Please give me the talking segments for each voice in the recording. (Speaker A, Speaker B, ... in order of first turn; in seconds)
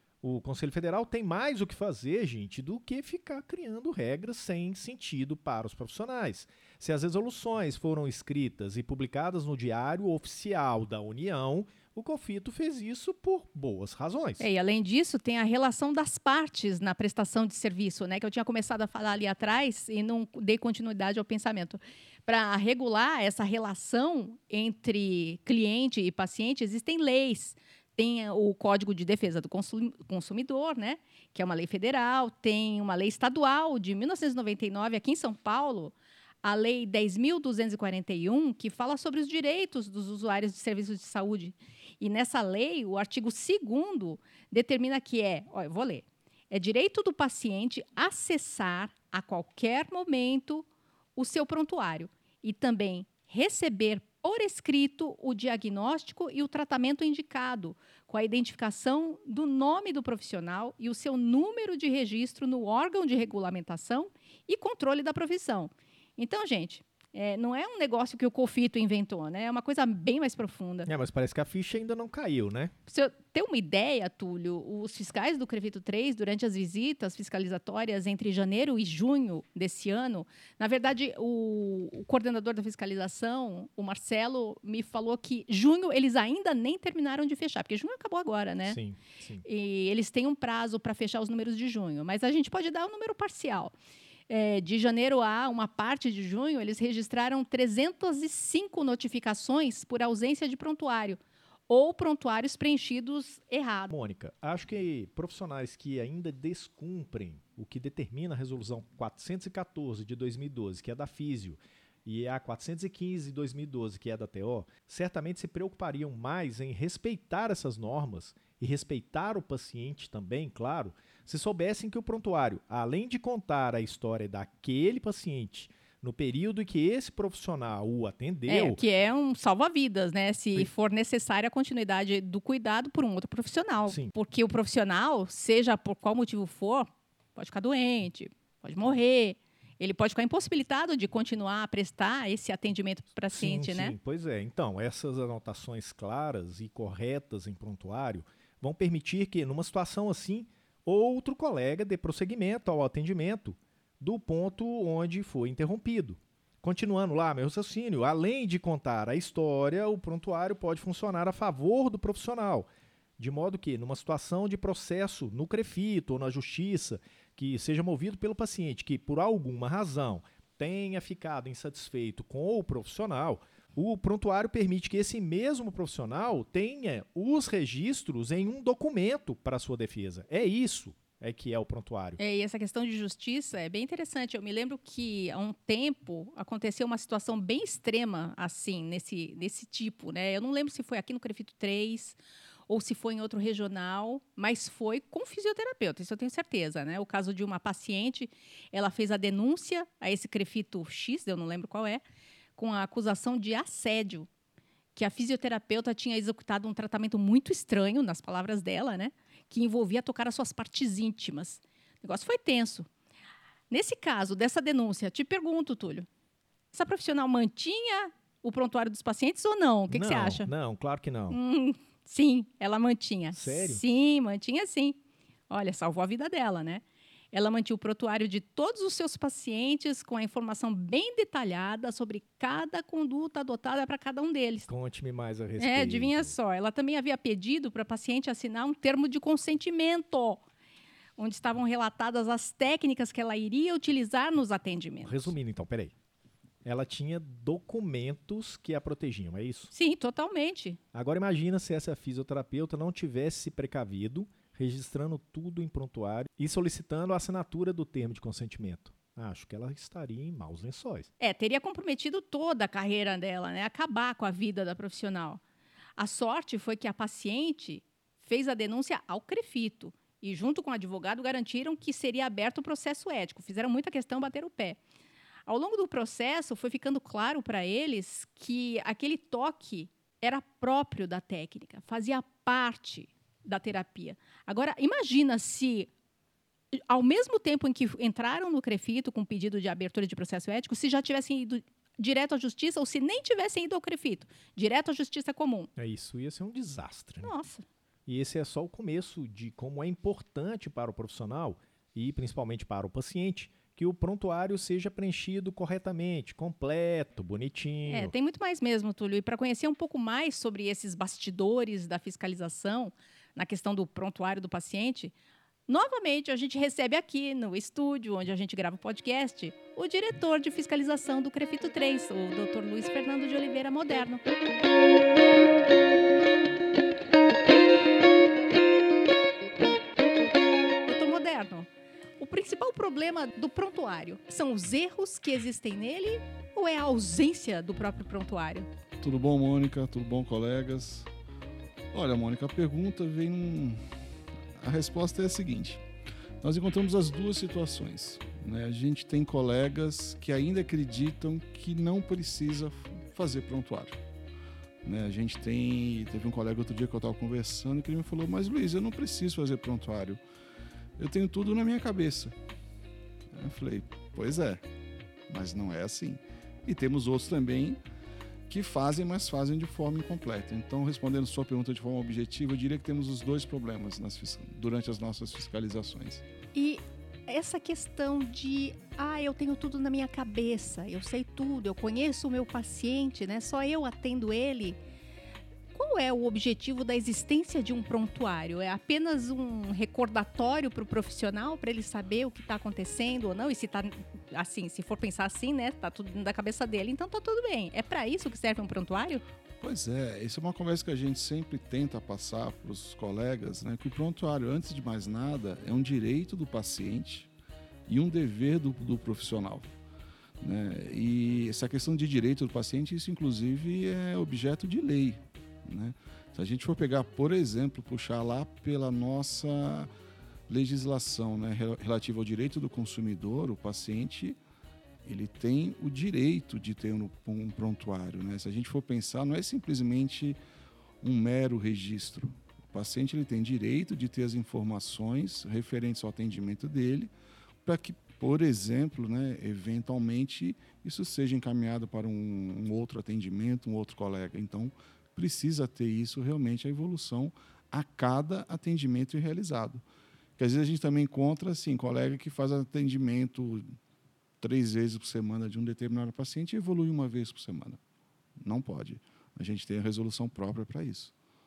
Speaker A: 0.2-14.4, 70.9-72.7, 88.7-89.4, 103.9-128.8, 133.9-134.1, 143.3-182.2, 219.9-221.4, 223.3-223.8, 234.7-236.3, 245.0-245.9, 246.6-249.7, 250.9-261.1, 295.8-297.3, 298.1-308.1
Speaker B: 14.4-70.9, 72.9-88.8, 89.4-93.7, 94.3-103.9, 128.5-143.9, 182.2-202.0, 202.6-204.3, 204.9-212.9, 213.7-216.1, 216.7-220.5, 221.3-234.7, 235.6-240.4, 241.2-245.3, 249.7-250.8, 261.2-265.4, 266.0-274.8, 275.5-285.9, 286.7-295.7, 297.2-297.6, 307.9-315.1, 315.7-324.2, 330.9-338.7, 376.5-384.8, 385.7-399.2
Speaker C: 339.0-341.1, 341.9-343.8, 344.6-345.8, 346.4-354.0, 354.8-360.2, 361.0-362.4, 363.3-364.6, 365.3-367.8, 368.5-376.2, 399.6-407.3, 407.9-409.7, 410.4-419.9, 420.5-424.4, 425.0-430.4, 431.0-437.1, 437.6-449.8, 450.4-453.6, 454.4-457.8, 458.4-461.1